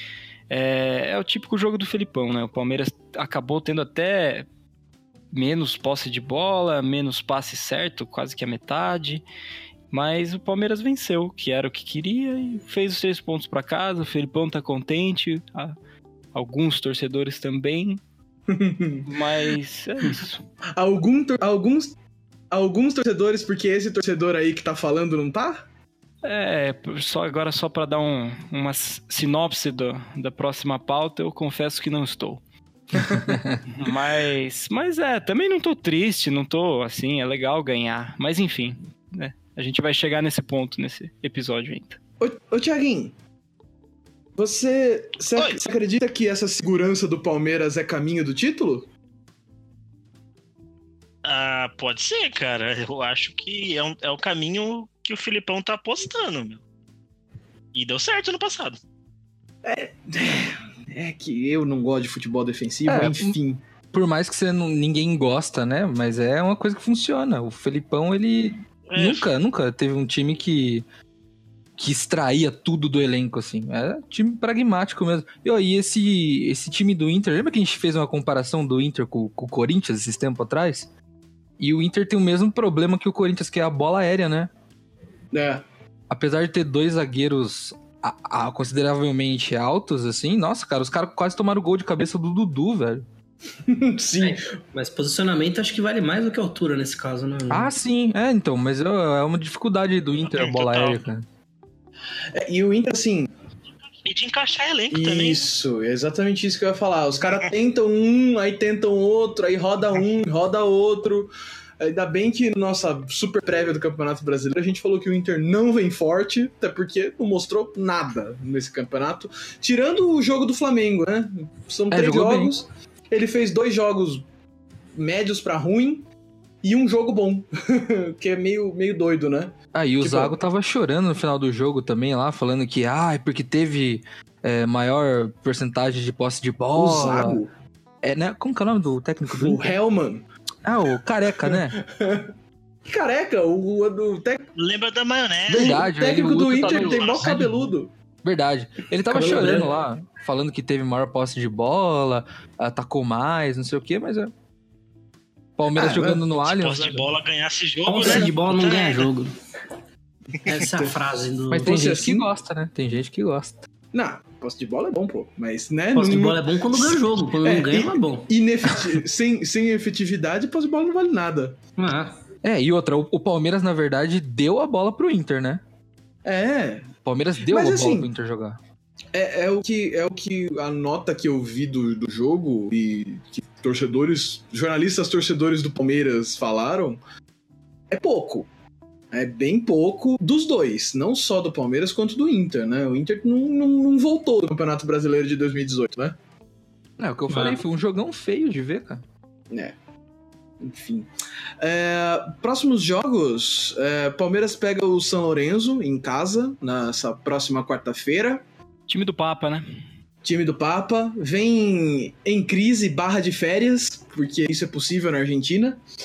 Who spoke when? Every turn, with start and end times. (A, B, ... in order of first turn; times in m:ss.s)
0:00.5-0:04.5 A
0:05.3-0:09.2 A
0:09.9-0:15.7 A
0:16.3-0:18.0 A
0:18.5-0:19.1 B
0:19.0-0:20.4 A
0:20.8-0:21.9 B
0:22.5-0:25.6 B
0:26.2-0:32.4 A
0:33.1-0:33.6 C
0:33.7-0:42.0 A
0:42.2-0:43.1 B
0:44.4-0:48.9 B
0:51.2-0:56.6 D
0:57.7-0:58.8 D
0:59.6-1:03.6 B
1:02.8-1:03.4 C
1:03.9-1:10.8 C
1:08.9-1:09.3 D
1:11.8-1:20.9 C
1:21.6-1:24.5 C
1:25.3-1:25.6 B
1:26.1-1:33.0 C
1:33.6-1:34.5 B
1:34.2-1:37.7 E
1:37.5-1:41.3 C
1:40.3-1:41.0 D
1:42.3-1:43.3 B
1:44.0-1:45.5 D
1:44.9-2:04.2 B
2:01.9-2:02.5 C
2:05.0-2:06.1 B
2:06.6-2:10.4 B
2:09.7-2:17.4 C
2:16.7-2:17.5 B
2:18.0-2:19.7 C
2:19.3-2:20.2 B
2:20.6-2:21.8 C
2:21.4-2:22.3 B
2:22.9-2:24.5 B
2:24.6-2:25.8 D
2:25.5-2:27.5 C
2:25.5-2:27.9 B
2:26.6-2:27.4 D
2:28.2-2:34.3 C
2:29.1-2:29.7 E
2:35.6-2:37.1 C
2:35.7-2:36.2 B
2:36.4-2:39.1 D
2:37.8-2:39.3 E
2:40.4-2:41.9 E
2:41.5-2:43.6 C
2:41.6-2:42.3 B
2:43.9-2:51.6 B
2:45.9-2:48.3 E
2:51.8-2:52.2 E
2:52.4-2:55.6 C
2:56.2-2:56.9 B
2:57.0-2:58.6 C
2:57.4-2:58.1 B
2:59.1-3:07.0 B
3:07.9-3:08.5 B
3:09.1-3:16.2 B
3:17.0-3:19.0 C
3:17.3-3:17.6 E
3:20.6-3:21.1 B
3:21.6-3:28.4 B
3:28.9-3:29.6 A
3:30.2-3:35.8 B